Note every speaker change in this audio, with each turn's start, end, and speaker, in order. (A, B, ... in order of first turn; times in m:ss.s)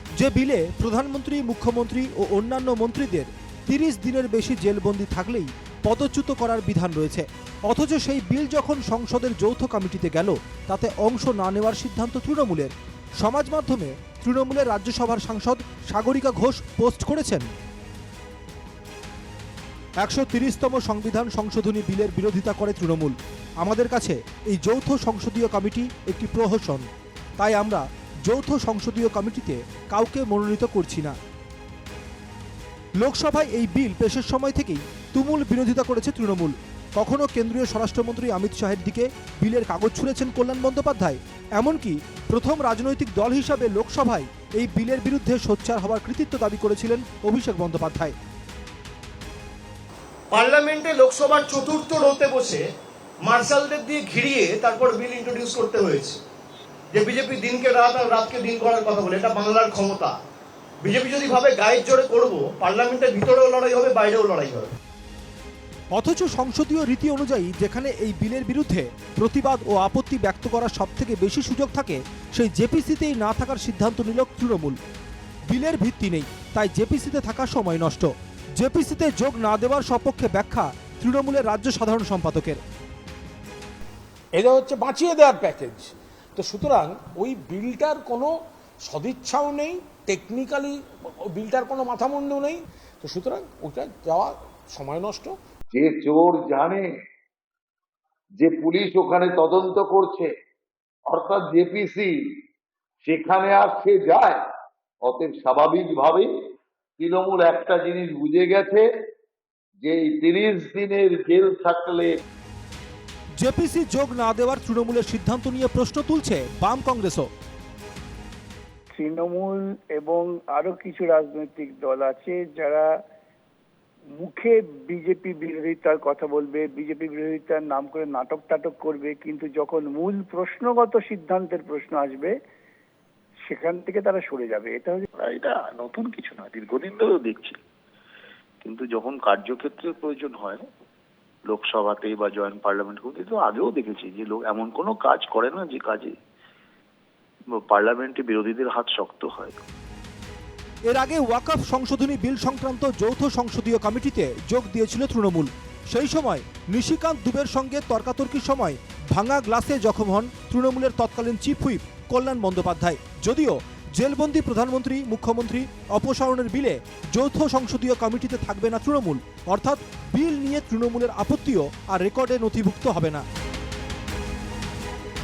0:00.2-0:17.5 A
0:20.0-0:26.8 A
0:27.4-0:31.2 A
0:33.0-0:48.1 A
0:50.3-0:52.6 B
0:53.2-0:56.2 B
0:56.9-1:00.1 B
1:00.8-1:04.7 B
1:05.9-1:14.8 A
1:15.5-1:22.6 A
1:24.4-1:28.3 C
1:28.8-1:35.3 C
1:35.7-1:36.9 D
1:38.4-1:40.3 D
1:41.1-1:42.1 D
1:43.0-1:44.4 D
1:45.0-1:46.3 D
1:47.0-1:48.8 D
1:49.8-1:52.1 D
1:53.4-1:57.3 A
1:58.9-2:02.9 E
2:04.2-2:12.3 E
2:13.5-2:15.0 E
2:15.2-2:17.6 F
2:18.6-2:20.6 F
2:21.5-2:26.1 F
2:27.5-2:29.6 F
2:30.9-2:53.2 A